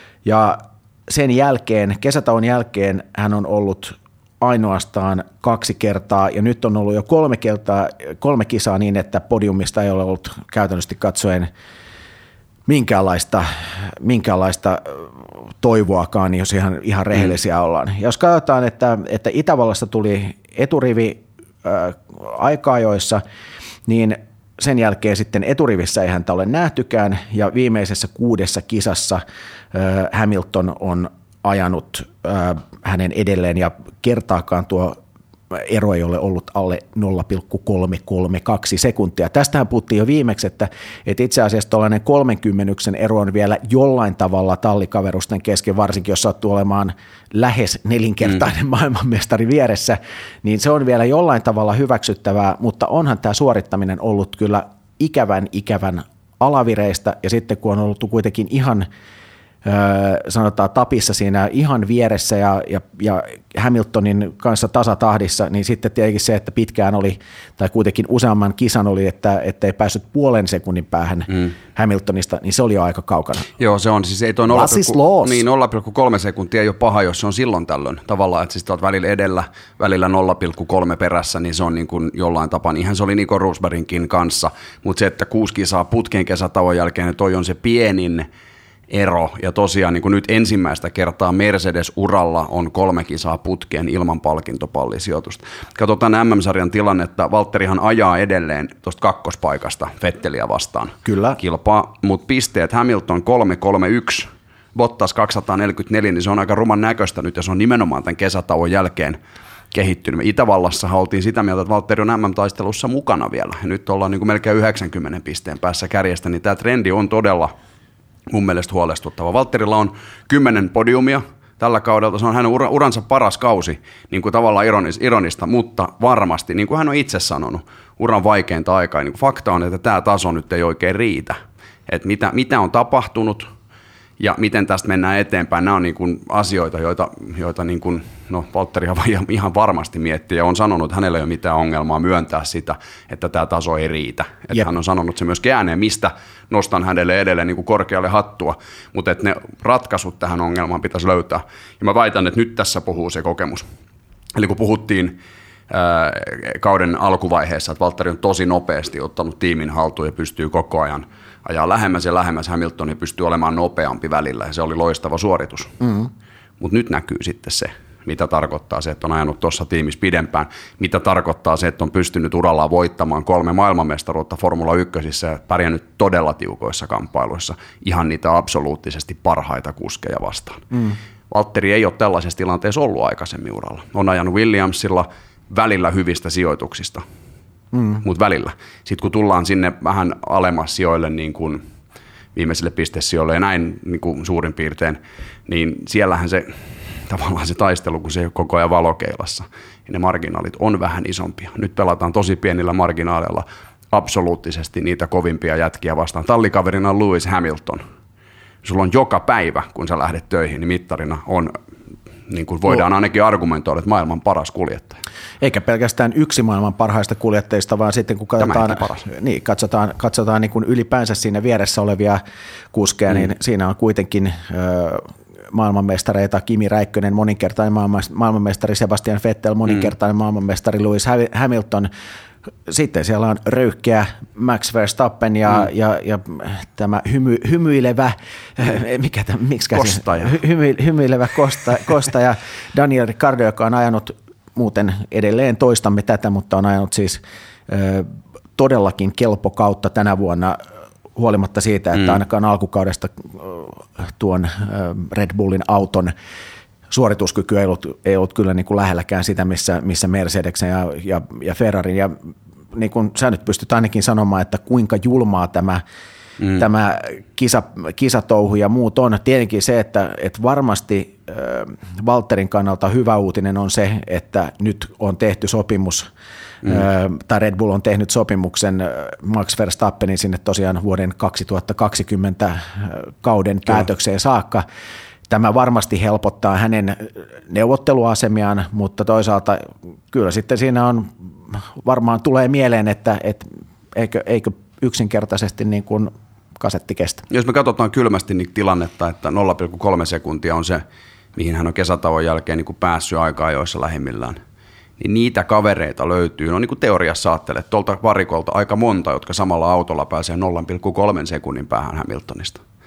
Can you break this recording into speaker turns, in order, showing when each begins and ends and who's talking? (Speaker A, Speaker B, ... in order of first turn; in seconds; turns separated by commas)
Speaker A: 0.2-11.5, Speaker A: 12.7-15.1, Speaker A: 15.6-23.2, Speaker A: 23.9-29.2, Speaker A: 29.7-35.0, Speaker A: 35.5-58.9, Speaker A: 59.6-73.5, Speaker B: 73.6-88.3, Speaker A: 74.5-75.4, Speaker B: 88.9-109.2, Speaker A: 101.0-101.4, Speaker B: 109.7-117.5, Speaker B: 118.3-133.5, Speaker B: 134.2-153.7, Speaker B: 154.3-155.2, Speaker B: 155.7-165.7, Speaker B: 166.6-180.7, Speaker B: 181.3-187.0, Speaker B: 188.0-191.6, Speaker B: 192.3-207.8, Speaker B: 208.6-211.5, Speaker B: 212.3-215.0, Speaker A: 215.4-222.2, Speaker B: 218.4-219.0, Speaker A: 222.7-231.9, Speaker A: 232.7-250.6, Speaker B: 239.7-240.3, Speaker A: 251.2-256.1, Speaker A: 256.9-265.8, Speaker A: 266.5-276.1, Speaker A: 276.6-284.6, Speaker A: 285.3-297.2, Speaker B: 297.3-300.8, Speaker B: 301.3-304.4, Speaker B: 305.0-312.6